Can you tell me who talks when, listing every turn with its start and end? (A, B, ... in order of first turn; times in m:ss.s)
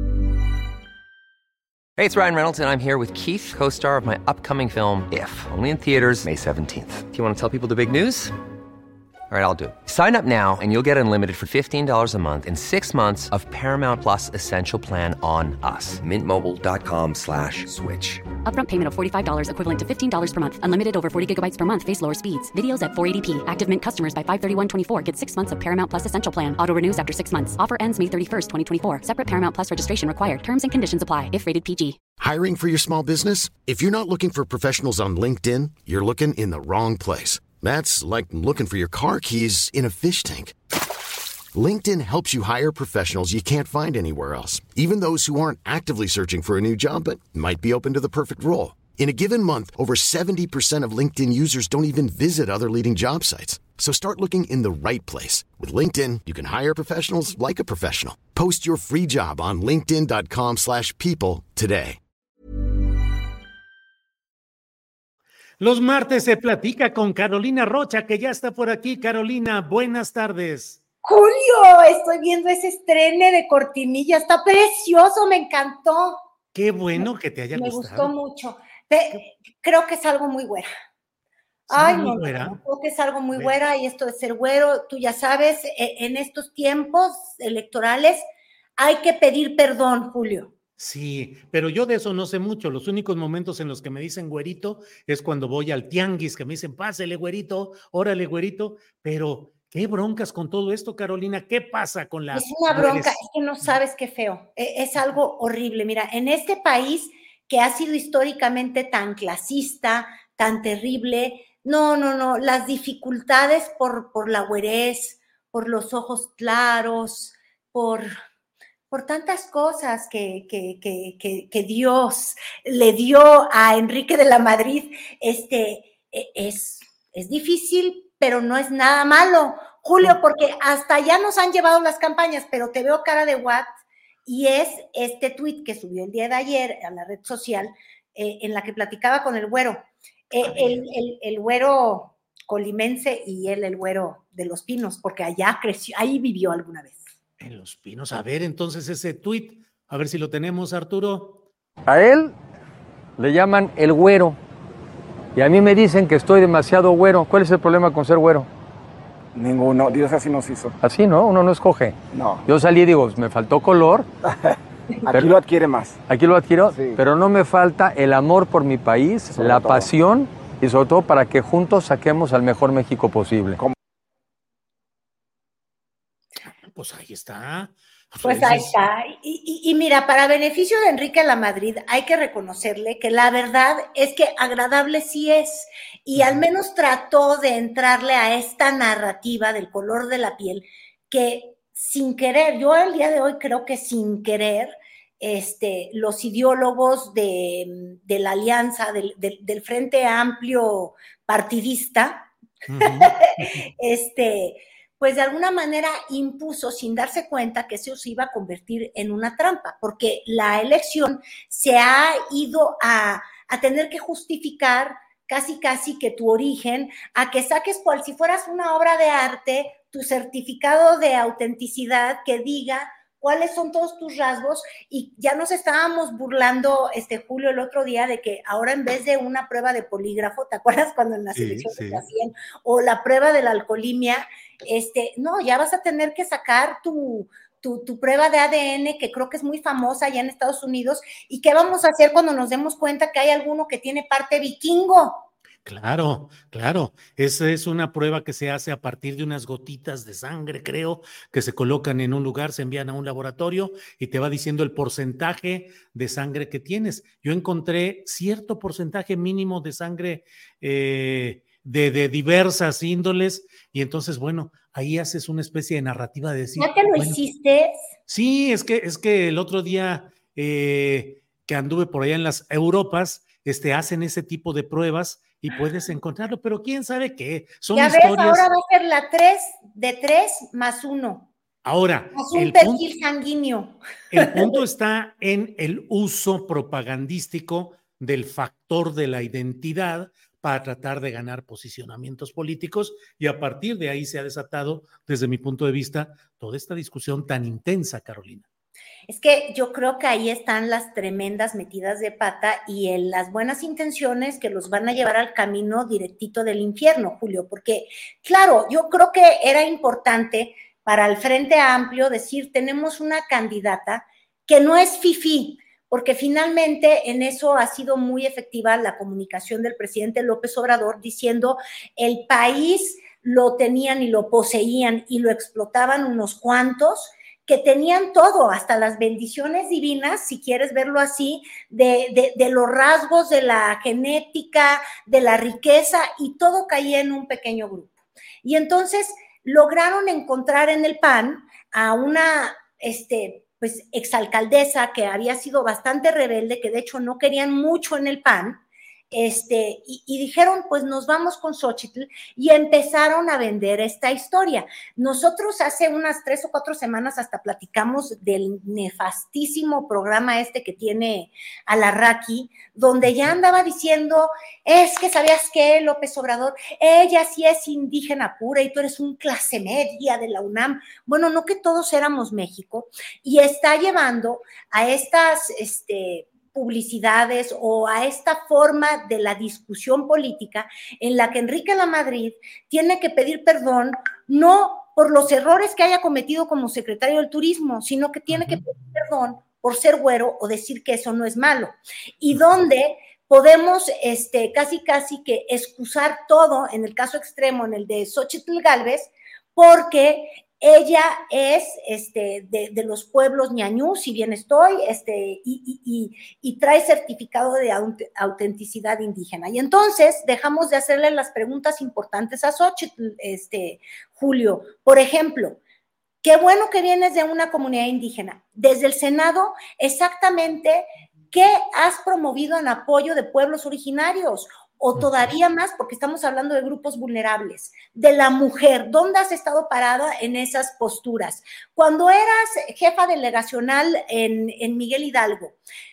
0:02.0-0:08.3 A
0:09.3-0:18.2 A
0:18.4-0:32.0 B
0:32.2-0:40.6 C
0:41.5-1:02.0 C
1:05.6-1:10.8 D
1:11.0-1:16.2 E
1:16.5-1:18.1 D
1:17.0-1:20.7 E
1:21.7-1:22.6 D
1:21.7-1:28.2 E
1:28.8-1:30.5 E
1:30.8-1:43.2 D
1:42.3-1:58.1 E
1:58.9-2:13.7 E
2:14.3-2:27.1 E
2:20.4-2:20.8 D
2:27.4-2:31.4 D
2:31.9-2:32.4 F
2:33.2-2:34.4 F
2:35.4-2:38.5 F
2:39.3-2:40.8 G
2:40.8-2:44.1 F
2:42.1-2:42.4 G
2:45.1-2:46.0 G
2:46.1-2:53.6 F
2:46.7-2:47.0 G
2:49.4-2:49.9 G
2:56.5-2:58.8 D
2:58.2-3:22.3 E
3:06.2-3:06.4 D
3:22.7-3:23.7 D
3:22.8-4:05.3 E
3:51.4-3:52.0 D
4:05.6-4:27.2 D
4:26.6-4:27.8 E
4:28.1-4:38.5 D
4:37.7-4:41.3 E
4:41.6-4:42.8 D
4:42.1-4:44.6 E
4:44.1-4:58.5 D
4:59.1-5:48.6 E
5:49.1-6:55.6 E
6:28.3-6:28.6 D
6:56.2-7:15.6 E